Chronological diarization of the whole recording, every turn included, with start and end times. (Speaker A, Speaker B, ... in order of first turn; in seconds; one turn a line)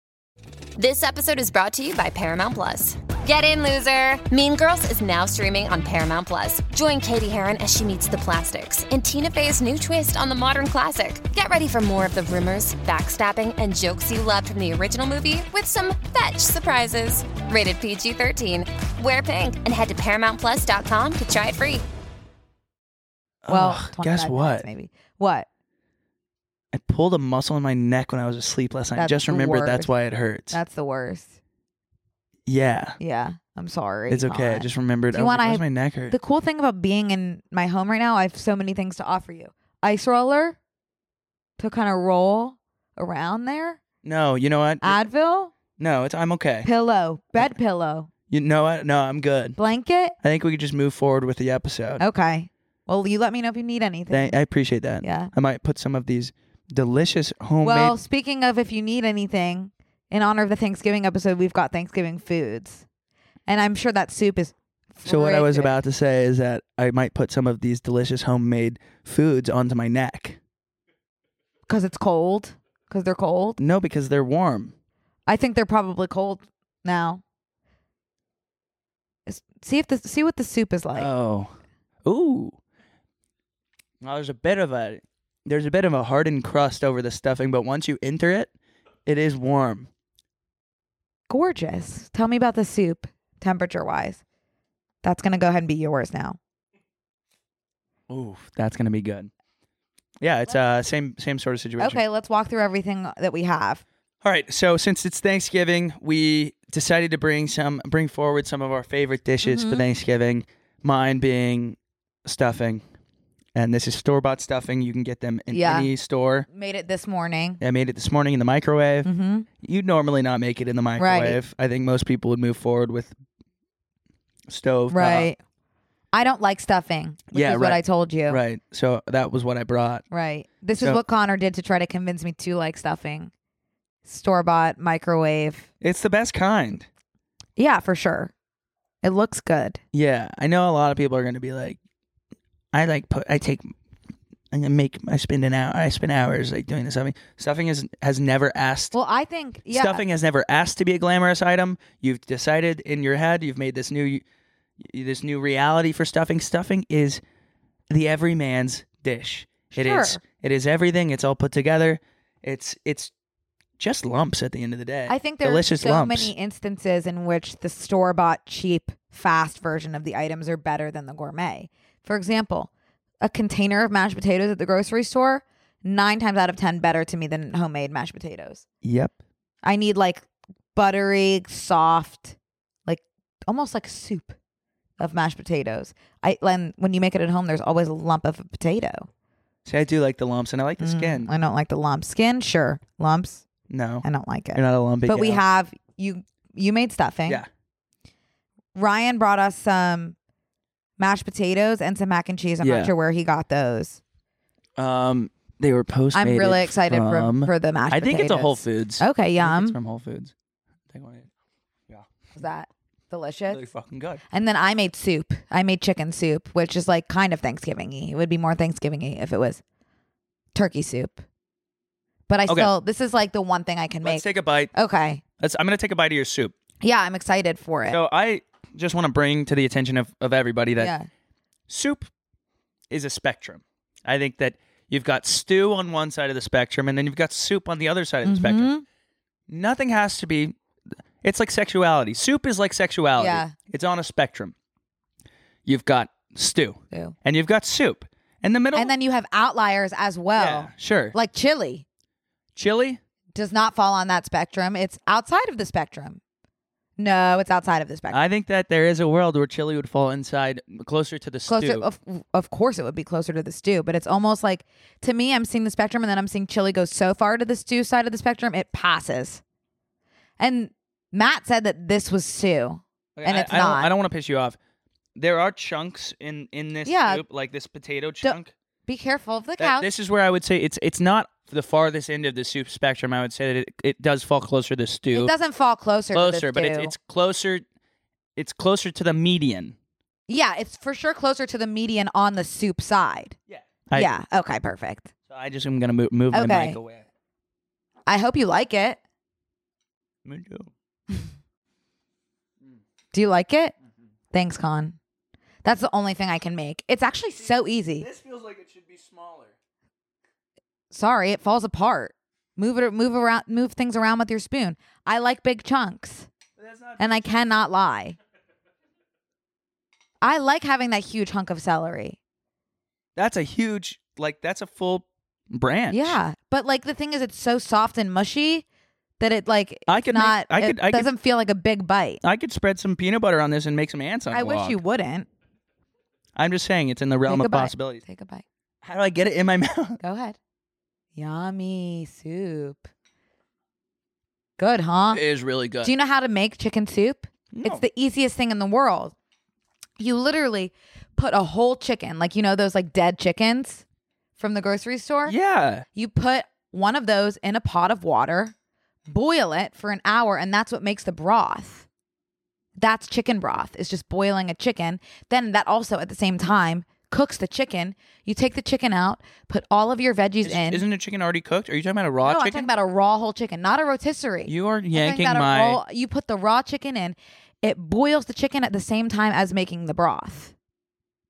Speaker A: 0.8-21.8
Speaker B: 23.4-24.7
Speaker C: 23.5-25.5
Speaker B: 26.7-30.6
Speaker C: 29.0-29.9
Speaker C: 30.5-31.4
Speaker B: 32.5-33.0
Speaker C: 33.0-40.6
Speaker B: 34.1-36.2
Speaker C: 41.6-43.8
Speaker B: 44.0-45.0
Speaker C: 44.8-45.5
Speaker B: 45.8-46.7
Speaker C: 46.6-48.1
Speaker B: 48.3-49.6
Speaker C: 49.6-50.2
Speaker B: 50.2-52.0
Speaker C: 52.0-54.4
Speaker B: 54.1-58.0
Speaker C: 55.0-55.3
Speaker C: 57.6-62.9
Speaker C: 63.5-65.7
Speaker B: 65.0-70.4
Speaker C: 71.7-73.6
Speaker B: 73.6-74.7
Speaker C: 75.3-77.2
Speaker C: 79.3-81.1
Speaker B: 81.0-82.6
Speaker B: 84.0-88.5
Speaker B: 89.1-89.9
Speaker C: 91.3-94.2
Speaker C: 95.0-96.4
Speaker B: 98.1-99.3
Speaker B: 100.2-102.0
Speaker C: 101.8-103.8
Speaker B: 104.2-112.8
Speaker C: 109.4-109.8
Speaker B: 113.5-116.5
Speaker C: 115.5-115.9
Speaker C: 116.5-117.6
Speaker B: 117.6-119.1
Speaker C: 119.0-119.5
Speaker B: 119.6-123.2
Speaker C: 121.0-121.4
Speaker B: 124.5-125.3
Speaker C: 124.9-125.4
Speaker C: 126.1-128.4
Speaker B: 127.3-130.1
Speaker C: 130.1-133.3
Speaker C: 134.1-135.7
Speaker B: 135.8-136.9
Speaker C: 137.6-138.3
Speaker C: 139.0-139.8
Speaker B: 139.9-141.8
Speaker B: 142.7-143.7
Speaker B: 144.5-148.9
Speaker C: 148.9-150.1
Speaker B: 149.7-154.2
Speaker B: 154.8-157.2
Speaker B: 157.9-163.1
Speaker C: 159.7-160.2
Speaker B: 163.8-166.3
Speaker C: 165.1-172.7
Speaker C: 173.2-178.7
Speaker B: 178.8-179.2
Speaker C: 179.6-184.4
Speaker C: 185.0-189.1
Speaker B: 189.7-191.3
Speaker C: 190.8-193.4
Speaker B: 193.7-195.4
Speaker C: 194.0-197.4
Speaker C: 198.8-200.2
Speaker C: 201.0-204.0
Speaker B: 202.6-202.9
Speaker B: 204.8-210.3
Speaker C: 206.1-209.8
Speaker B: 210.9-211.3
Speaker C: 212.4-213.7
Speaker B: 213.5-214.2
Speaker C: 214.3-219.6
Speaker C: 220.6-221.2
Speaker C: 222.3-225.2
Speaker B: 222.5-222.7
Speaker B: 224.0-224.7
Speaker B: 225.4-226.5
Speaker C: 226.8-228.0
Speaker B: 227.9-230.9
Speaker C: 230.8-231.1
Speaker B: 231.7-232.1
Speaker B: 232.9-238.7
Speaker C: 238.2-238.8
Speaker B: 239.5-240.6
Speaker B: 241.2-244.5
Speaker C: 243.2-243.6
Speaker B: 245.7-248.9
Speaker C: 248.8-251.8
Speaker B: 250.3-251.2
Speaker B: 252.6-253.0
Speaker C: 253.3-256.2
Speaker C: 257.0-258.3
Speaker B: 258.1-261.9
Speaker C: 261.5-269.4
Speaker C: 270.4-273.9
Speaker B: 273.2-274.6
Speaker B: 275.2-278.5
Speaker C: 276.9-277.2
Speaker C: 278.2-279.9
Speaker B: 279.6-285.3
Speaker C: 285.1-286.9
Speaker B: 286.1-287.6
Speaker B: 288.4-289.8
Speaker C: 290.3-293.4
Speaker B: 293.5-294.1
Speaker C: 293.9-295.1
Speaker B: 295.3-297.1
Speaker C: 296.3-296.8
Speaker C: 298.1-299.0
Speaker B: 300.2-300.7
Speaker C: 303.1-303.7
Speaker C: 304.3-305.0
Speaker C: 305.6-308.1
Speaker B: 307.4-309.6
Speaker C: 310.9-316.3
Speaker B: 316.6-317.2
Speaker C: 317.0-318.2
Speaker C: 320.2-322.2
Speaker B: 323.2-326.2
Speaker C: 325.9-328.6
Speaker C: 329.2-332.2
Speaker B: 329.9-331.1
Speaker B: 332.2-334.8
Speaker C: 334.3-335.3
Speaker B: 336.4-338.0
Speaker C: 337.3-338.4
Speaker B: 338.8-340.0
Speaker C: 340.0-340.4
Speaker C: 341.2-342.9
Speaker C: 344.6-345.2
Speaker B: 345.1-345.9
Speaker C: 345.8-349.1
Speaker B: 347.5-347.8
Speaker C: 350.0-353.8
Speaker C: 354.4-355.3
Speaker B: 355.3-355.9
Speaker C: 355.9-358.5
Speaker C: 359.1-361.9
Speaker C: 362.8-370.8
Speaker B: 370.4-372.7
Speaker C: 372.2-380.5
Speaker B: 374.5-375.8